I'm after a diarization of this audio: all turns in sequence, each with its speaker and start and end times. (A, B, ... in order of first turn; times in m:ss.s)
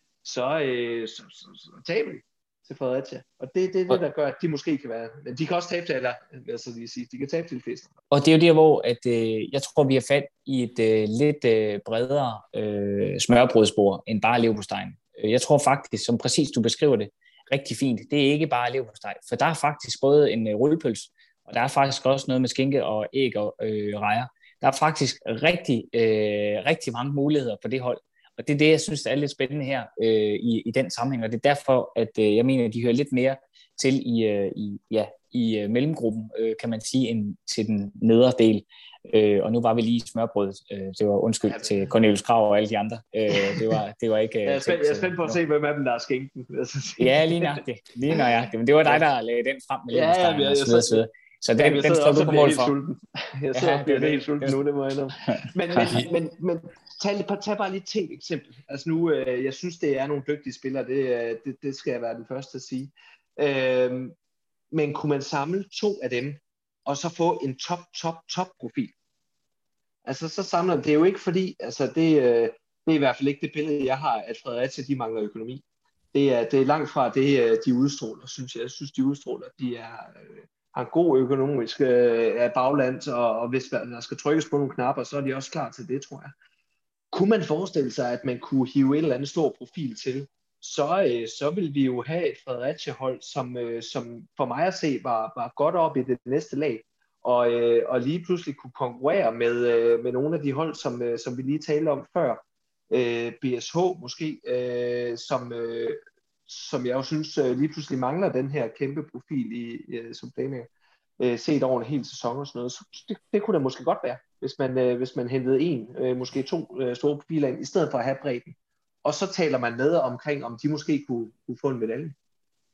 0:00.2-0:08.0 A
0:08.1-0:45.4 B
0:41.5-0:41.9 A
0:44.4-0:47.6 A
0:47.0-0:52.7 B
0:49.9-0:51.0 A
0:51.6-1:04.2 A
0:53.5-0:54.6 B
0:55.3-0:56.0 B
1:04.7-1:08.9 A
1:10.0-1:15.6 A
1:16.1-1:26.3 A
1:27.1-1:50.7 A
1:51.2-2:02.2 A